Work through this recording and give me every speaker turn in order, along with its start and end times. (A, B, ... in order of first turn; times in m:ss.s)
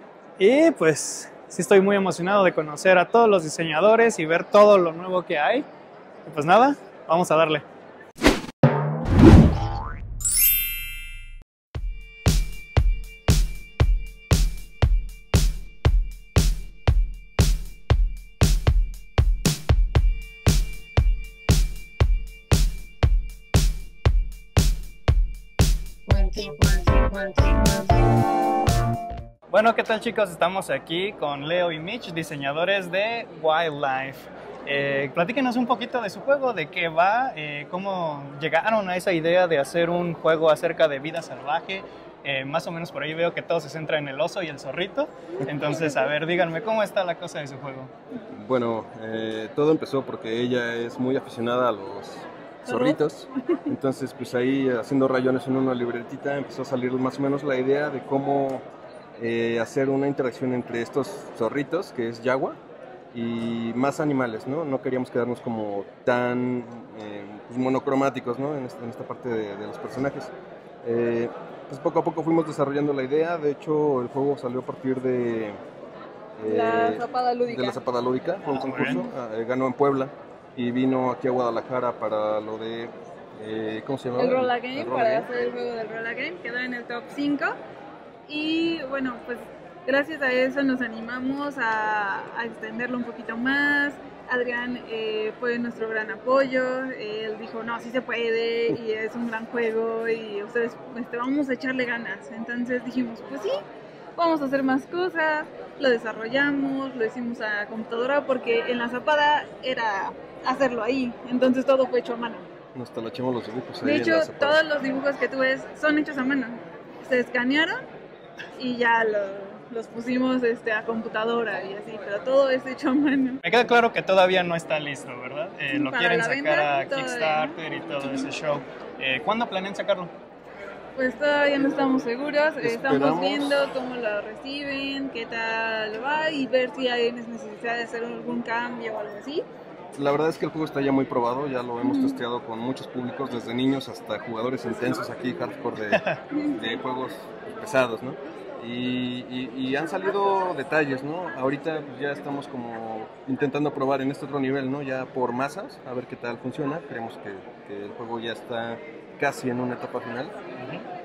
0:00.4-0:05.7 A
0:06.2-0:07.6 A
0:29.5-0:47.9 A
0:48.3-0:58.6 B
0:52.7-0:53.0 C
0:59.2-1:02.6 B
1:03.1-1:10.3 B
1:10.8-1:15.6 B
1:16.4-1:25.3 B
1:16.4-1:17.8 C
1:18.5-1:19.0 A
1:24.2-1:27.6 C
1:28.3-1:43.6 C
1:44.2-1:52.5 C
1:52.8-1:54.6 B
1:53.8-1:57.8 C
1:58.6-2:03.4 C
2:03.4-2:10.1 A
2:05.7-2:08.3 C
2:11.0-2:19.5 C
2:12.6-2:13.6 B
2:20.0-2:40.3 B
2:21.8-2:22.2 C
2:25.9-2:26.2 A